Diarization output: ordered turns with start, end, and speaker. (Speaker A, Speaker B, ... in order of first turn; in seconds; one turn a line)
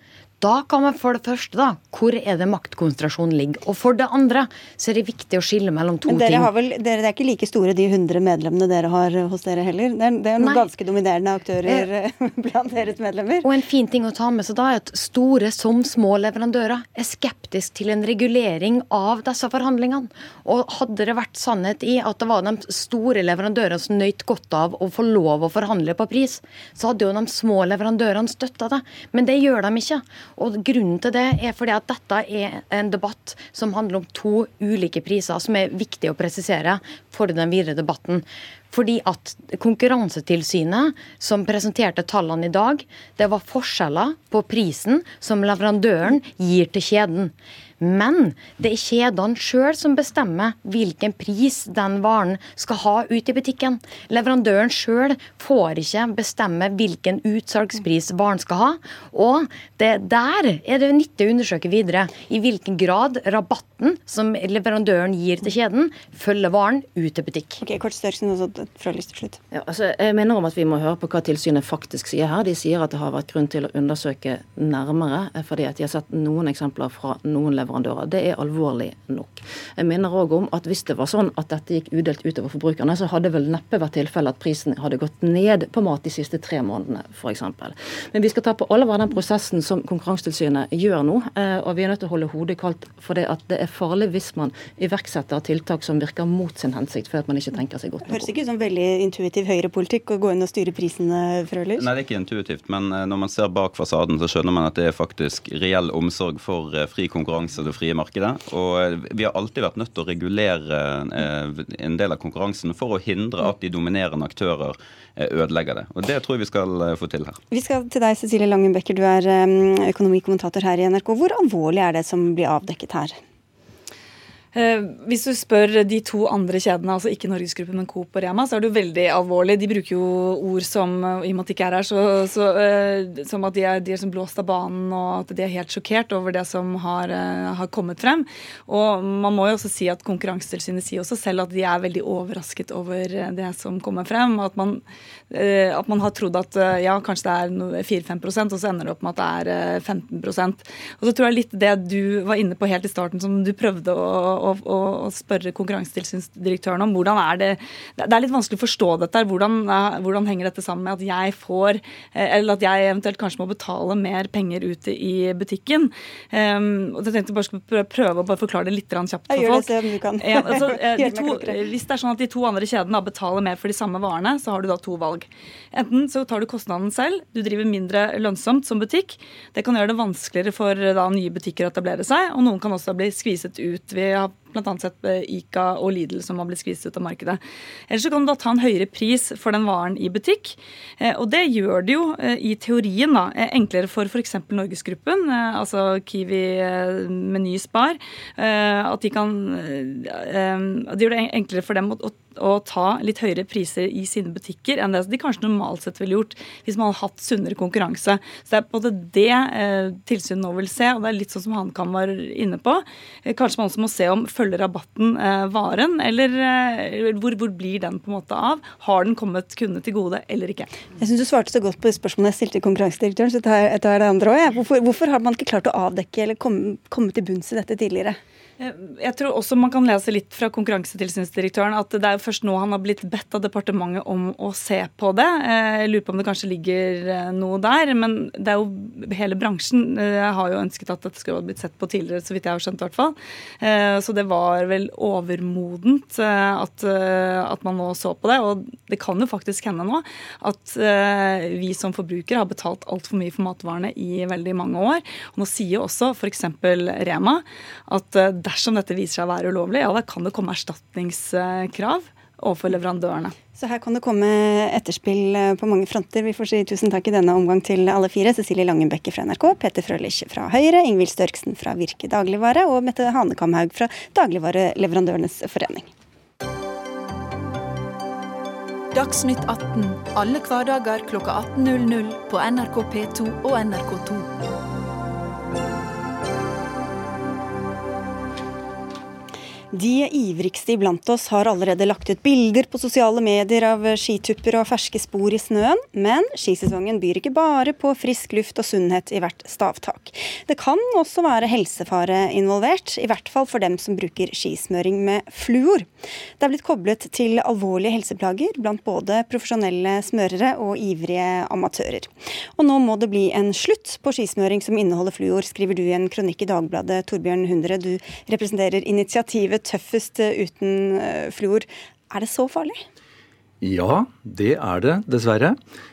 Speaker A: 0.4-6.5
Speaker B: 6.1-13.4
Speaker A: 10.4-10.7
Speaker A: 13.4-67.6
Speaker B: 67.6-69.4
Speaker C: 69.5-98.3
Speaker B: 98.1-101.9
Speaker D: 101.8-117.4
Speaker B: 117.5-123.2
Speaker E: 124.5-220.7
Speaker B: 169.3-171.6
Speaker B: 221.0-228.2
Speaker E: 228.6-263.3
Speaker B: 263.6-275.9
Speaker F: 278.9-284.3
Speaker B: 289.7-305.9
Speaker B: 306.4-322.8
Speaker G: 323.6-325.6